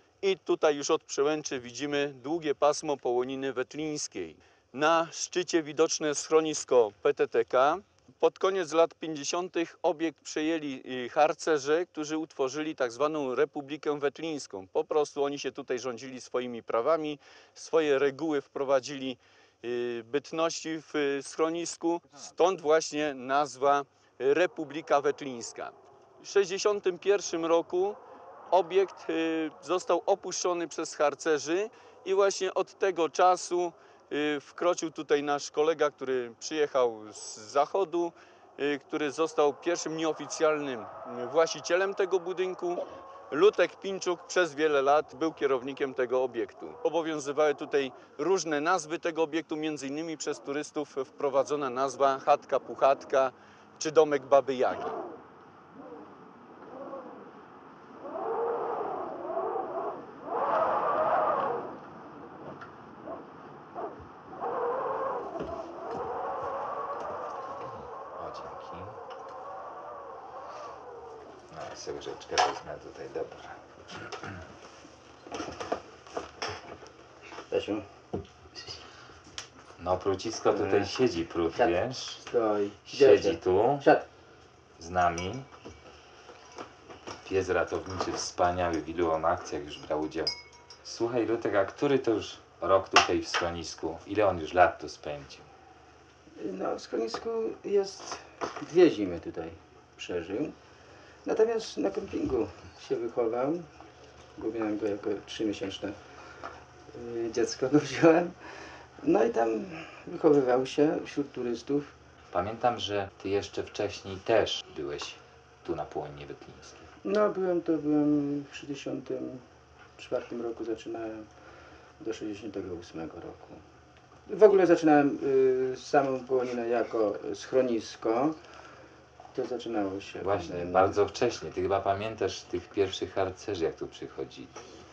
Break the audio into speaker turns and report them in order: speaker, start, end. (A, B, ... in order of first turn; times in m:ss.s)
0:00.2-0:28.0 A
0:28.5-0:55.0 A
1:08.1-1:09.0 B
1:11.5-1:13.6 B
1:17.5-1:17.8 C
1:19.8-1:22.2 B
1:20.5-1:20.9 C
1:21.5-1:24.0 C
1:22.9-1:23.9 B
1:24.8-1:25.4 B
1:27.2-1:30.3 B
1:30.8-1:35.5 B
1:36.4-1:40.5 C
1:41.2-1:43.7 C
1:44.4-1:46.0 C
1:46.9-1:48.4 C
1:49.0-1:51.9 C
1:52.3-1:56.9 B
1:57.0-1:59.4 C
2:00.0-2:01.3 C
2:02.0-2:03.6 C
2:04.3-2:08.4 C
2:09.3-2:11.0 C
2:10.2-2:14.6 B